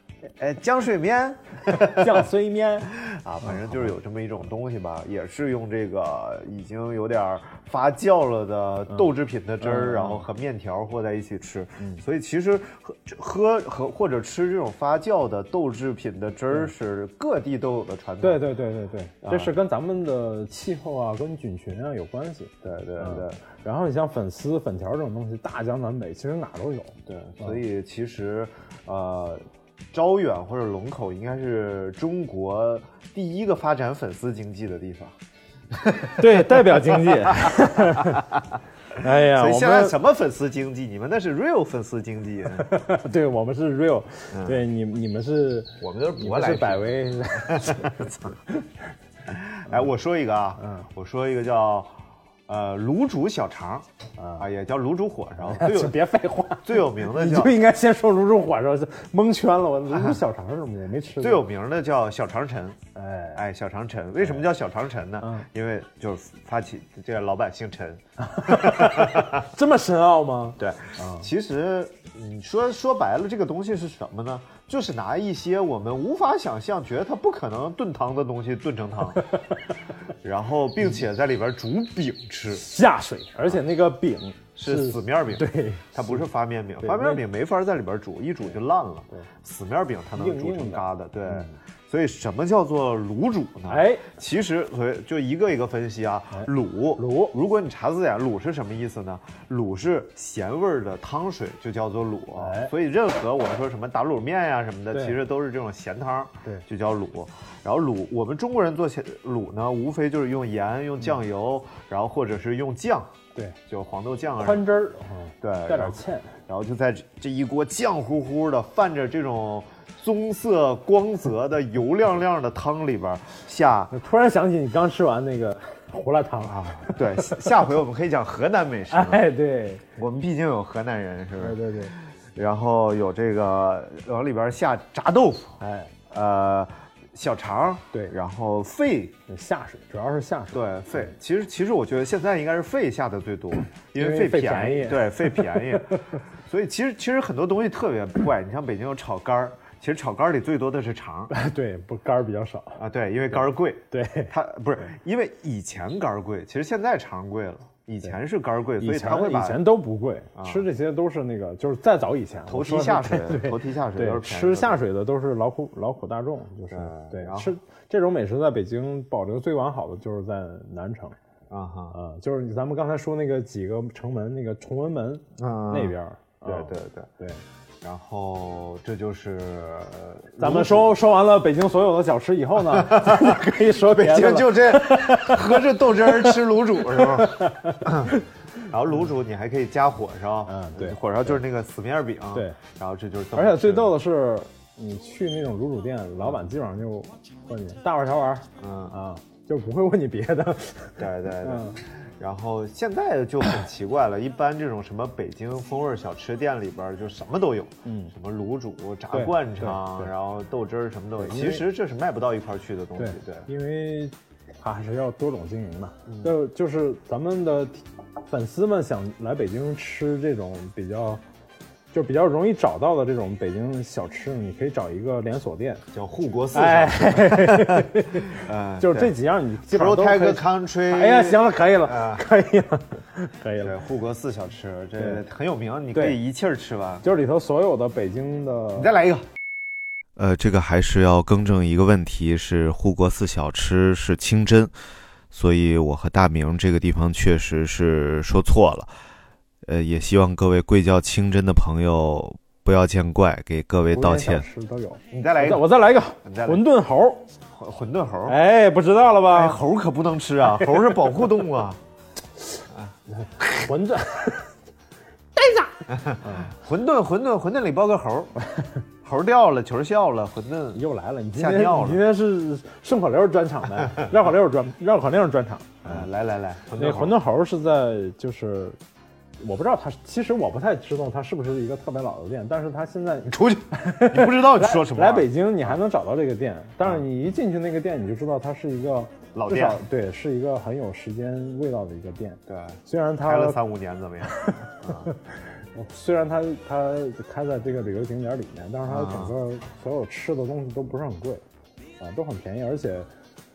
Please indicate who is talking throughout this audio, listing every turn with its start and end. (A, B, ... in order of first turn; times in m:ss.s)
0:00.4-0:02.3 A
0:01.7-0:02.9 B
0:03.0-0:18.5 A
0:09.6-0:10.2 B
0:18.2-0:27.6 B
0:19.2-0:19.5 A
0:22.6-0:23.4 A
0:27.1-0:35.1 A
0:35.7-0:37.5 A
0:36.2-0:38.2 B
0:39.0-0:40.0 B
0:39.3-0:42.7 A
0:42.6-0:48.6 B
0:44.3-0:44.6 A
0:45.8-0:48.4 A
0:49.3-0:51.9 A
0:50.6-0:50.9 B
0:52.5-0:53.9 A
0:54.2-0:54.4 B
0:54.4-0:56.0 A
0:55.5-1:01.5 B
0:56.6-0:57.5 A
1:01.2-1:02.8 A
1:03.0-1:03.4 B
1:03.4-1:09.4 A
1:08.2-1:11.3 B
1:10.6-1:19.2 A
1:20.2-1:22.6 A
1:22.5-1:26.2 B
1:24.6-1:53.1 A
1:26.8-1:27.2 B
1:30.2-1:31.5 B
1:33.7-1:34.1 B
1:36.3-1:37.4 B
1:42.4-1:42.7 B
1:53.7-1:54.6 A
1:54.4-1:56.3 B
1:55.4-2:03.9 A
2:03.9-2:07.4 B
2:06.5-2:09.2 A
2:08.9-2:09.8 B
2:10.0-2:11.6 A
2:11.4-2:11.9 B
2:12.4-2:15.5 A
2:15.6-2:15.9 B
2:16.1-2:19.2 A
2:19.3-2:20.6 B
2:20.5-2:31.3 A
2:24.0-2:25.9 B
2:31.3-2:32.8 B
2:32.8-2:39.7 A
2:33.9-2:34.3 B
2:38.8-2:51.2 B
2:40.4-2:40.6 A
2:42.5-2:44.8 A
2:46.7-2:47.5 A
2:51.5-2:52.0 A
2:51.9-2:57.4 B
2:55.4-2:55.9 A
2:56.4-2:57.1 A
2:57.8-3:01.0 A
3:00.4-3:06.4 B
3:02.7-3:08.2 A
3:07.0-3:08.2 B
3:08.7-3:14.0 A
3:10.5-3:11.4 B
3:13.4-3:21.8 B
3:18.6-3:19.0 A
3:21.0-3:33.5 A
3:27.8-3:28.1 B
3:29.1-3:30.1 B
3:31.2-3:31.6 B
3:33.0-3:41.2 B
3:41.9-3:45.8 B
3:45.9-3:49.2 A
3:46.5-3:53.7 B
3:49.7-3:52.2 A
3:53.6-3:57.0 A
3:55.9-3:56.2 B
3:57.0-3:58.9 B
3:58.8-3:59.2 A
4:00.2-4:04.7 C
4:05.3-4:08.9 C
4:09.6-4:14.5 C
4:13.9-4:17.2 B
4:15.1-4:16.6 A
4:17.6-4:18.4 A
4:18.3-4:19.6 B
4:19.3-4:21.8 A
4:23.1-4:24.5 B
4:25.4-4:26.5 B
4:25.9-4:28.3 A
4:29.0-4:30.8 A
4:30.7-4:36.1 B
4:31.4-4:32.0 A
4:35.8-4:37.2 A
4:36.8-4:38.8 B
4:39.4-4:53.6 B
4:43.3-4:45.8 A
4:49.3-4:49.8 A
4:52.5-4:55.1 A
4:54.4-4:55.2 B
4:55.8-5:01.4 B
4:58.9-4:59.4 A
5:02.0-5:03.1 B